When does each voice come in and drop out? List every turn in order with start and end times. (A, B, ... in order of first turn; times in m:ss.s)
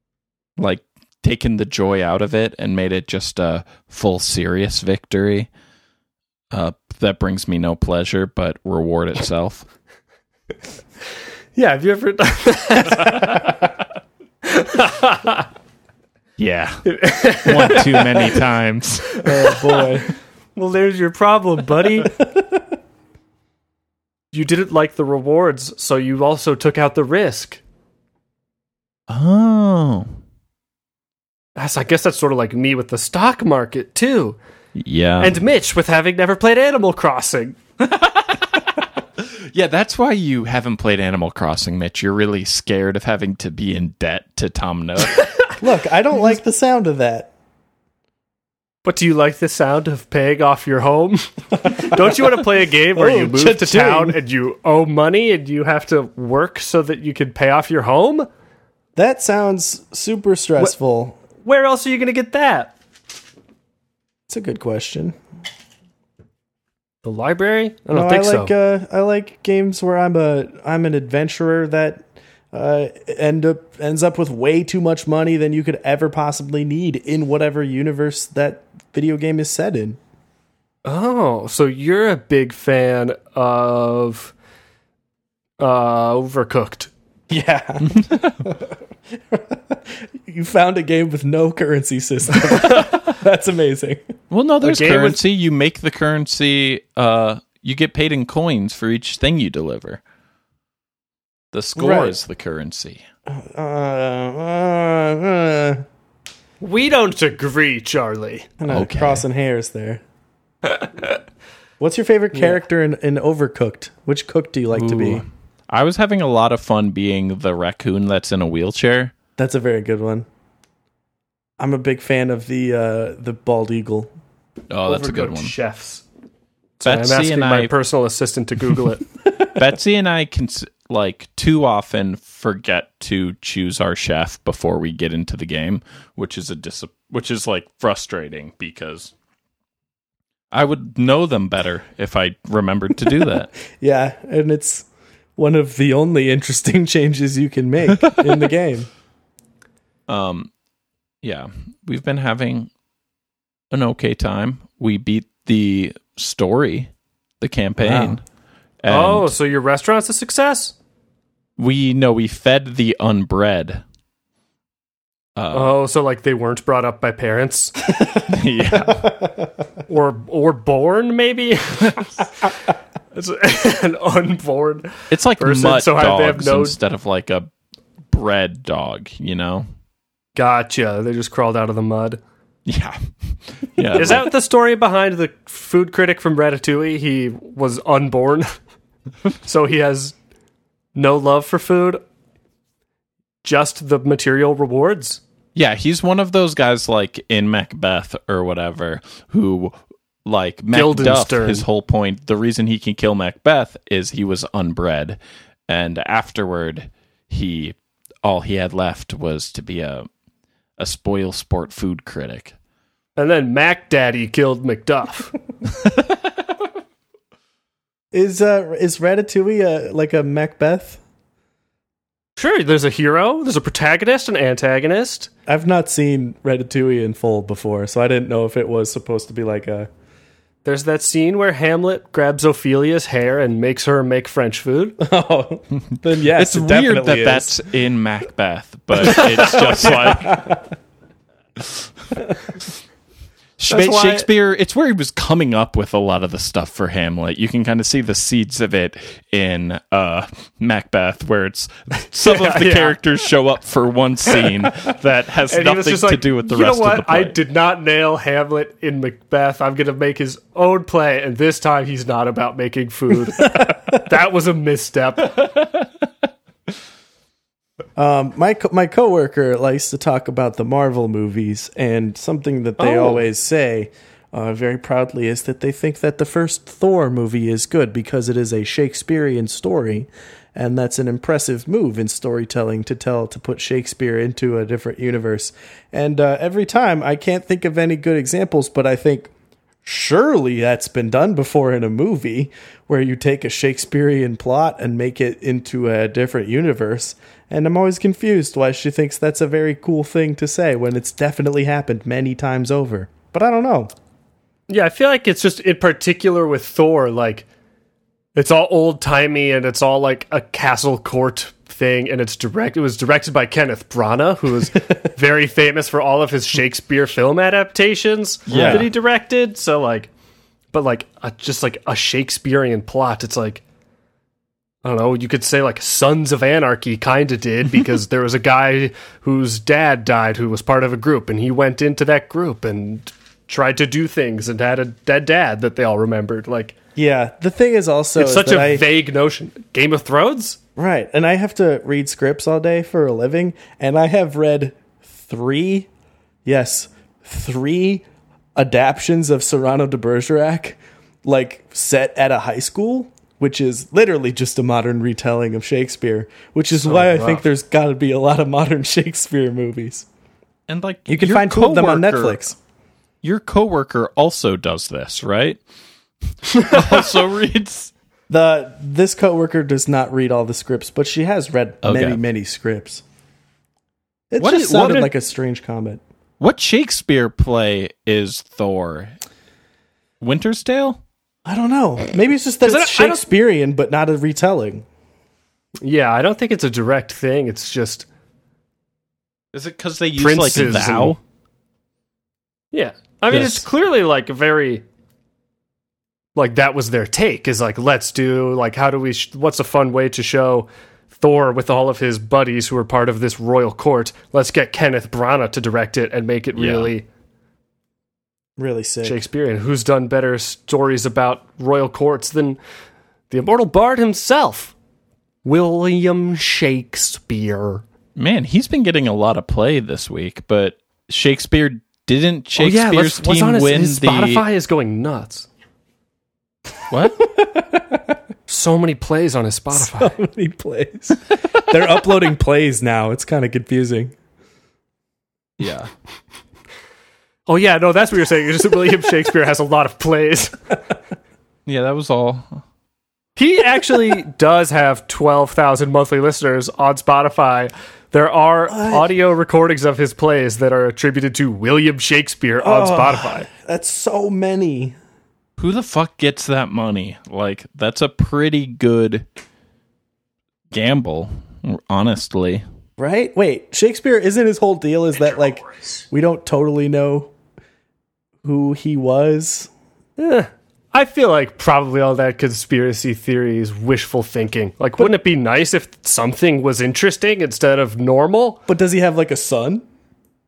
0:00.6-0:05.5 A
0:06.5-0:09.7 A
0:11.6-0:13.5 B
0:14.5-0:15.5 B
0:16.4-0:19.1 A
0:16.9-0:18.4 B
0:19.2-0:20.1 C
0:20.6-0:22.1 B
0:22.2-0:22.6 C
0:24.3-0:27.6 B
0:29.1-0:30.1 A
0:31.6-0:34.4 B
0:34.8-0:35.4 A
0:35.2-0:37.6 B
0:37.8-0:38.4 A
0:39.3-0:45.3 A
0:45.6-0:47.3 C
0:48.8-0:58.3 B
0:51.6-0:52.0 C
0:53.0-0:54.2 C
0:59.0-1:01.2 C
1:01.4-1:02.7 B
1:04.3-1:05.2 C
1:07.0-1:08.5 B
1:07.9-1:20.0 C
1:20.8-1:24.3 B
1:25.6-1:26.9 B
1:27.3-1:34.0 C
1:27.9-1:28.4 A
1:34.3-1:40.0 A
1:34.6-1:35.2 B
1:41.5-1:43.0 A
1:41.8-1:42.2 C
1:43.3-1:45.8 C
1:46.6-1:48.5 B
1:48.6-1:50.0 C
1:48.7-1:49.2 A
1:51.8-1:55.2 C
1:52.3-1:52.6 B
1:54.7-1:59.1 A
1:59.4-2:00.3 C
2:01.6-2:04.1 C
2:04.7-2:05.5 A
2:04.8-2:06.0 B
2:06.8-2:09.0 B
2:06.8-2:07.7 A
2:09.6-2:19.1 A
2:20.5-2:23.5 A
2:23.7-2:28.9 C
2:30.1-2:30.5 A
2:31.2-2:32.7 A
2:33.7-2:36.9 A
2:37.4-2:38.2 A
2:37.8-2:38.2 C
2:38.8-2:39.3 A
2:38.9-2:40.8 B
2:41.6-2:43.8 A
2:45.4-2:45.8 A
2:45.5-2:47.7 B
2:48.0-2:49.5 C
2:48.2-2:49.1 A
2:49.9-2:52.0 B
2:53.1-2:56.8 B
2:55.1-2:57.5 A
2:58.1-2:59.7 A
3:00.4-3:02.2 B
3:02.7-3:04.3 A
3:04.0-3:08.6 B
3:09.4-3:10.2 B
3:11.0-3:12.0 B
3:13.4-3:15.2 B
3:15.6-3:19.7 A
3:20.3-3:30.1 A
3:20.7-3:21.6 B
3:30.8-3:32.5 A
3:33.2-3:35.3 B
3:38.1-3:41.0 C
3:42.4-3:45.3 B
3:45.5-3:49.9 C
3:50.6-3:55.0 B
3:55.0-3:57.6 C
3:56.4-4:00.5 A
3:59.0-4:00.6 C
3:59.5-4:00.0 B
4:03.6-4:17.4 A
4:03.7-4:04.2 B
4:12.2-4:13.0 B
4:15.5-4:25.5 B
4:28.0-4:49.3 C
4:32.8-4:33.2 B
4:49.8-5:03.9 C
5:04.7-5:07.5 B
5:08.4-5:20.1 B
5:18.5-5:18.9 A
5:18.5-5:18.9 C
5:20.7-5:23.6 B
5:24.8-5:36.8 B
5:37.0-5:38.9 C
5:38.2-5:40.6 B
5:40.8-5:45.9 C
5:46.4-5:48.0 C
5:48.6-6:00.1 C
5:56.8-5:57.4 B
6:00.7-6:02.4 A
6:01.1-6:02.6 C
6:03.2-6:05.6 A
6:06.5-6:07.9 A
6:08.3-6:13.0 C
6:11.8-6:12.2 A
6:14.3-6:16.0 C
6:14.4-6:15.1 A
6:14.6-6:15.1 B
6:16.4-6:19.2 A
6:20.2-6:21.0 A
6:21.4-6:24.8 C
6:22.6-6:23.2 B
6:25.8-6:28.1 B
6:29.5-6:31.2 A
6:30.2-6:31.2 B
6:32.7-6:34.8 B
6:33.3-6:33.6 A
6:36.4-6:47.0 B
6:46.6-6:46.9 A
6:48.6-6:49.2 C
6:49.0-6:52.6 B
6:53.3-6:54.7 B
6:55.4-6:57.8 B
6:58.2-7:04.4 A
7:02.6-7:05.5 B
7:07.2-7:08.2 C
7:08.5-7:10.2 B
7:09.7-7:14.2 C
7:15.6-7:15.9 A
7:17.5-7:20.6 B
7:21.7-7:22.6 A
7:23.4-7:33.5 B
7:28.7-7:29.1 C
7:32.6-7:35.0 C
7:35.6-7:39.2 A
7:40.7-7:42.6 A
7:43.0-7:47.3 C
7:48.4-7:49.7 C
7:50.2-7:58.6 B
7:58.7-7:59.8 C